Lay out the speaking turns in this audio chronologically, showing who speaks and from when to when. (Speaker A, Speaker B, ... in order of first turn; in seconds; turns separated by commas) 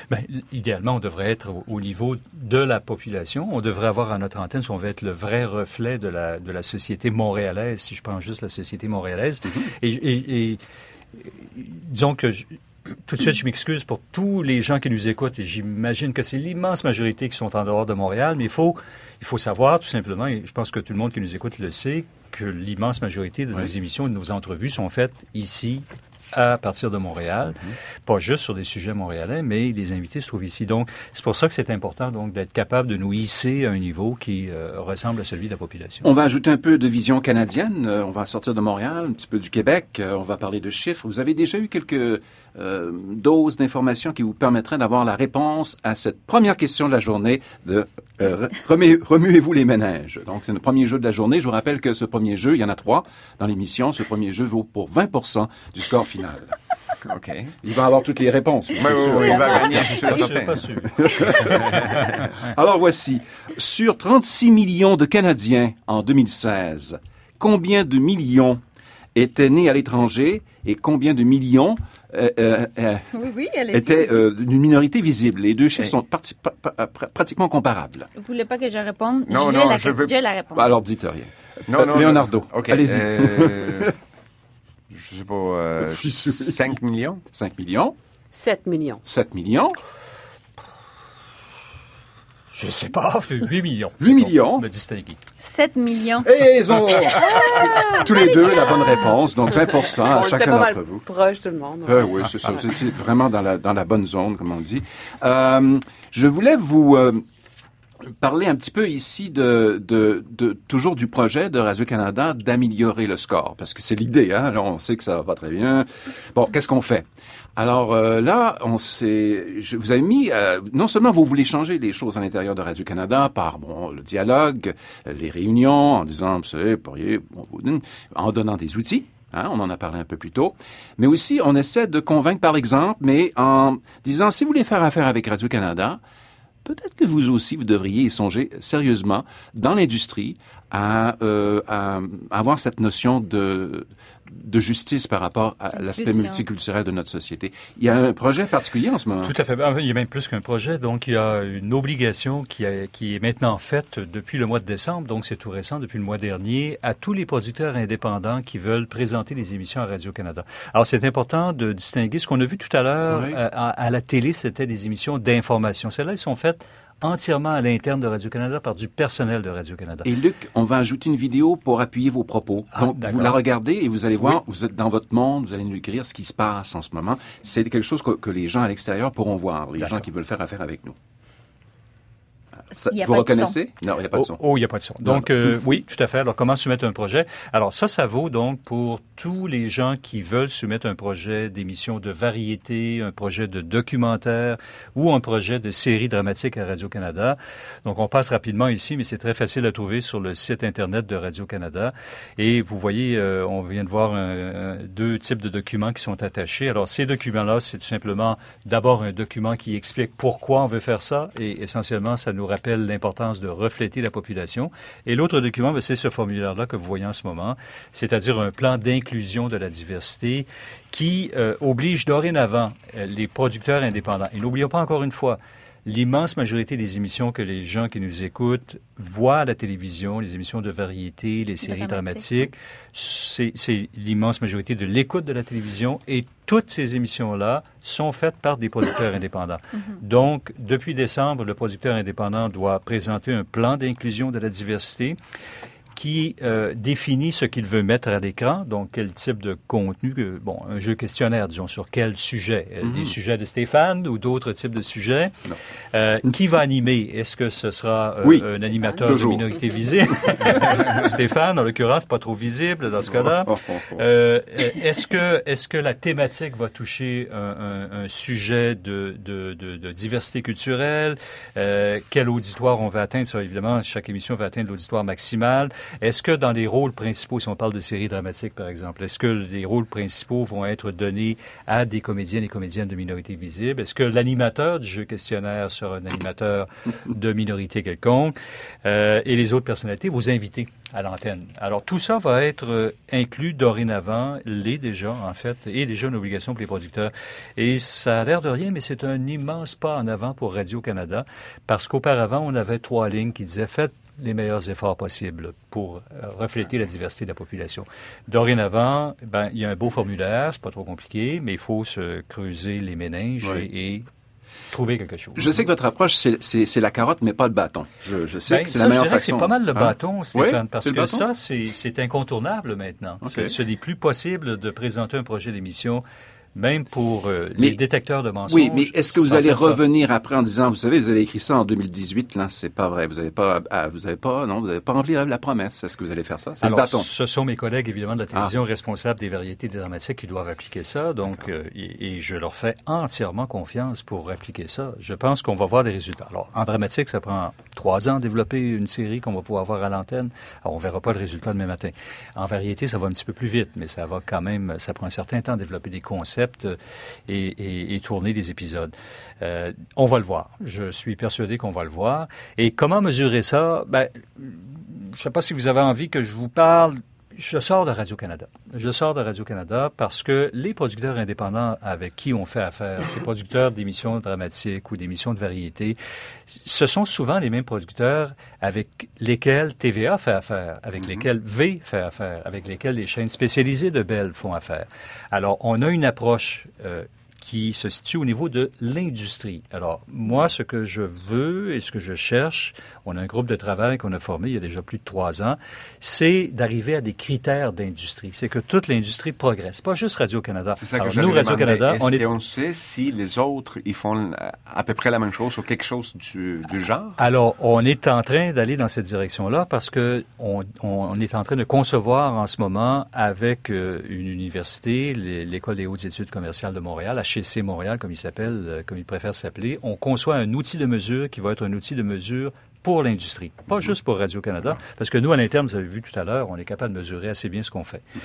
Speaker A: 0.1-10.6, Speaker A: 11.2-36.0, Speaker B: 36.0-56.5, Speaker C: 57.0-57.5, Speaker B: 57.6-59.7, Speaker C: 58.8-60.7, Speaker A: 59.6-61.9, Speaker B: 61.0-68.6, Speaker C: 61.4-62.1, Speaker B: 69.1-73.1, Speaker D: 73.1-74.3, Speaker B: 73.7-78.1, Speaker D: 78.2-80.8, Speaker C: 79.3-80.1, Speaker B: 80.5-83.9, Speaker C: 81.7-83.9, Speaker C: 84.9-87.2, Speaker B: 85.8-86.7, Speaker B: 87.3-88.0, Speaker E: 88.3-89.0, Speaker B: 89.0-89.8, Speaker A: 92.5-95.2, Speaker B: 94.0-94.6, Speaker D: 95.4-96.3, Speaker B: 96.2-101.0, Speaker D: 97.2-99.0, Speaker E: 97.4-98.0, Speaker E: 99.8-102.3, Speaker B: 101.8-107.2, Speaker B: 108.2-136.0, Speaker B: 136.6-149.3, Speaker D: 145.7-146.4, Speaker A: 149.2-170.1, Speaker B: 163.1-163.4, Speaker B: 170.0-180.9, Speaker A: 172.7-173.4, Speaker A: 179.8-180.0, Speaker B: 182.7-184.4, Speaker D: 182.9-183.5, Speaker A: 184.1-245.2, Speaker B: 185.0-185.3, Speaker D: 231.6-232.5, Speaker A: 245.9-314.1, Speaker B: 252.8-253.1, Speaker E: 258.8-259.0, Speaker B: 259.0-259.5, Speaker B: 263.0-264.0, Speaker A: 314.7-315.6, Speaker B: 315.4-321.2, Speaker A: 318.5-326.0, Speaker B: 323.2-323.5, Speaker A: 326.5-329.8, Speaker B: 328.5-337.1, Speaker A: 336.6-376.0, Speaker A: 376.5-402.2, Speaker C: 400.8-407.2, Speaker A: 407.2-428.0